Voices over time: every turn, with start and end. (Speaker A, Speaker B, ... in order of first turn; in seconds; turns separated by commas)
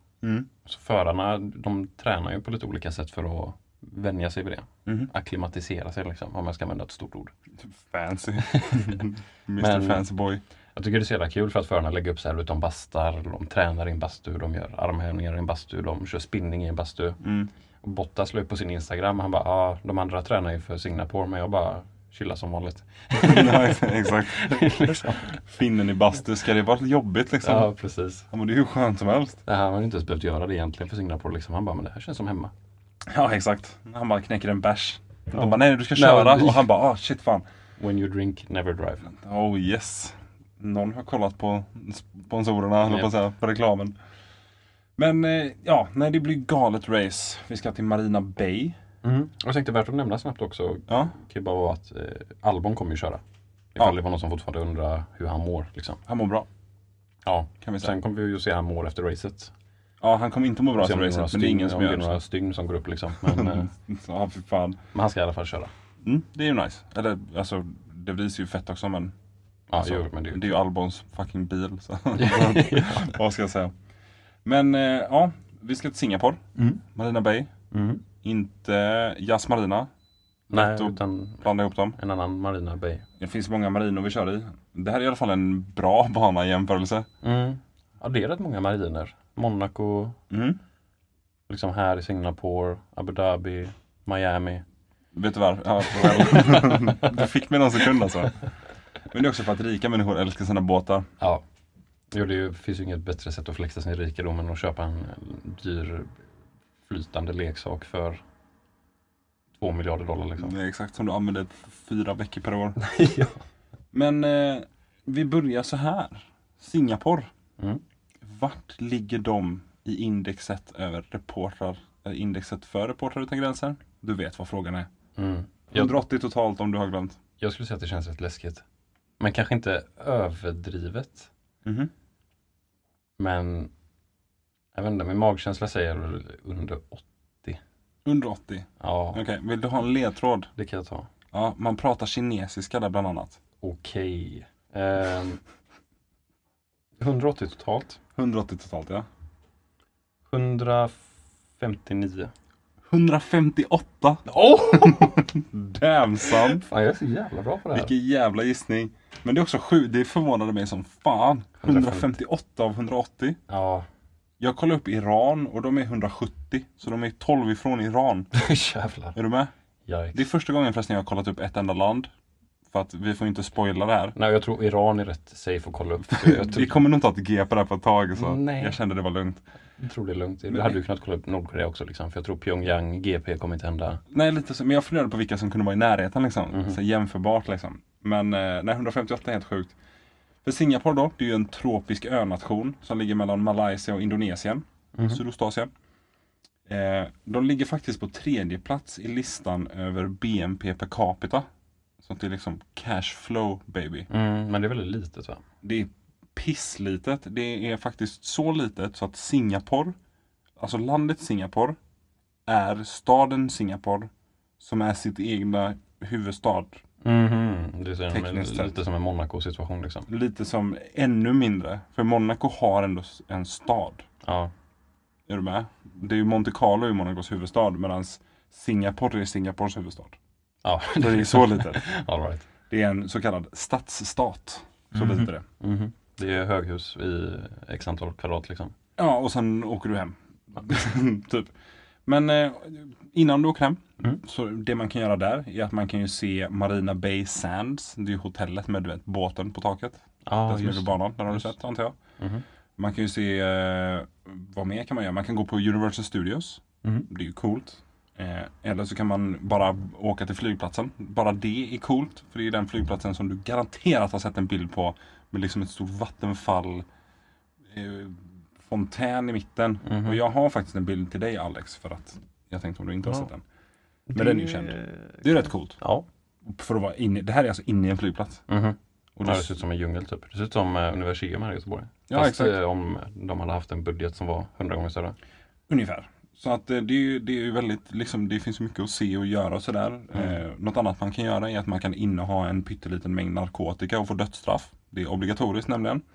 Speaker A: 0.2-0.5, Speaker B: 0.6-7.3, Speaker A: 4.8-5.1, Speaker A: 7.6-10.4, Speaker B: 8.4-9.0, Speaker B: 9.6-10.0, Speaker B: 10.8-17.2, Speaker A: 17.2-17.5, Speaker B: 17.8-25.4, Speaker A: 23.1-27.7, Speaker B: 27.4-28.3, Speaker A: 28.3-29.4, Speaker B: 29.4-32.5, Speaker A: 33.1-37.5, Speaker B: 35.3-36.7, Speaker B: 37.8-39.1, Speaker A: 39.0-44.0, Speaker A: 45.0-48.8, Speaker B: 49.0-53.2, Speaker A: 50.9-51.1, Speaker B: 53.7-56.0, Speaker A: 56.1-56.5, Speaker B: 57.2-59.5, Speaker A: 57.6-57.9, Speaker A: 60.0-62.2, Speaker B: 60.8-63.7, Speaker A: 63.2-64.8, Speaker B: 64.9-65.7, Speaker A: 66.0-69.1, Speaker B: 69.7-70.6, Speaker A: 69.8-73.7, Speaker B: 72.1-73.2, Speaker A: 74.4-77.5, Speaker B: 77.7-78.0, Speaker A: 78.2-79.9, Speaker A: 80.5-82.0, Speaker B: 80.5-83.0, Speaker A: 83.2-87.1, Speaker B: 87.2-90.2, Speaker A: 90.3-90.6, Speaker B: 91.5-94.6, Speaker A: 95.1-98.4, Speaker B: 96.0-97.1, Speaker A: 99.1-101.1, Speaker B: 102.1-106.1, Speaker B: 106.8-108.2, Speaker B: 109.6-110.5, Speaker A: 110.4-112.8, Speaker B: 112.8-113.4, Speaker A: 113.9-117.3, Speaker A: 118.2-124.9, Speaker B: 125.2-125.9, Speaker A: 125.7-127.2, Speaker B: 127.4-128.6, Speaker B: 129.2-131.3, Speaker A: 131.6-131.9, Speaker B: 133.2-133.7, Speaker B: 134.7-137.6, Speaker A: 138.0-140.5, Speaker B: 138.8-139.2, Speaker B: 140.6-141.1, Speaker A: 141.3-143.4, Speaker B: 143.6-145.4, Speaker B: 147.0-148.0, Speaker A: 148.2-149.1, Speaker B: 150.3-151.1, Speaker B: 151.6-152.3, Speaker A: 152.9-156.6, Speaker B: 154.3-155.2, Speaker B: 156.4-157.9, Speaker A: 157.7-163.4, Speaker B: 161.6-162.1, Speaker B: 163.5-163.9, Speaker A: 164.4-168.3, Speaker B: 168.3-169.2, Speaker A: 169.1-169.5, Speaker B: 169.8-170.2, Speaker A: 170.1-172.1, Speaker A: 172.7-174.1, Speaker B: 174.1-176.7, Speaker A: 176.1-179.4, Speaker B: 178.2-178.8, Speaker B: 179.8-184.0, Speaker A: 180.5-180.8, Speaker A: 184.1-189.7, Speaker B: 186.5-186.8, Speaker A: 190.4-195.7, Speaker B: 194.9-195.2, Speaker A: 196.7-201.5, Speaker A: 202.0-204.1, Speaker B: 204.1-205.4, Speaker A: 205.6-209.9, Speaker A: 210.6-211.8, Speaker A: 212.5-216.8, Speaker B: 217.0-220.1, Speaker A: 218.1-218.8, Speaker A: 220.1-224.1, Speaker B: 224.2-224.5, Speaker A: 225.3-230.2, Speaker B: 230.6-232.5, Speaker A: 231.0-231.8, Speaker A: 232.7-235.4, Speaker B: 235.0-238.7, Speaker A: 239.0-241.5, Speaker A: 242.1-252.0, Speaker B: 250.2-251.5, Speaker B: 252.2-252.4, Speaker A: 252.8-266.9, Speaker A: 267.7-273.4, Speaker B: 269.8-270.2, Speaker B: 274.1-275.2, Speaker A: 274.1-275.8, Speaker B: 275.8-276.1, Speaker A: 276.4-278.4, Speaker B: 278.5-285.1, Speaker A: 279.1-279.6, Speaker A: 282.1-282.6, Speaker A: 285.7-296.0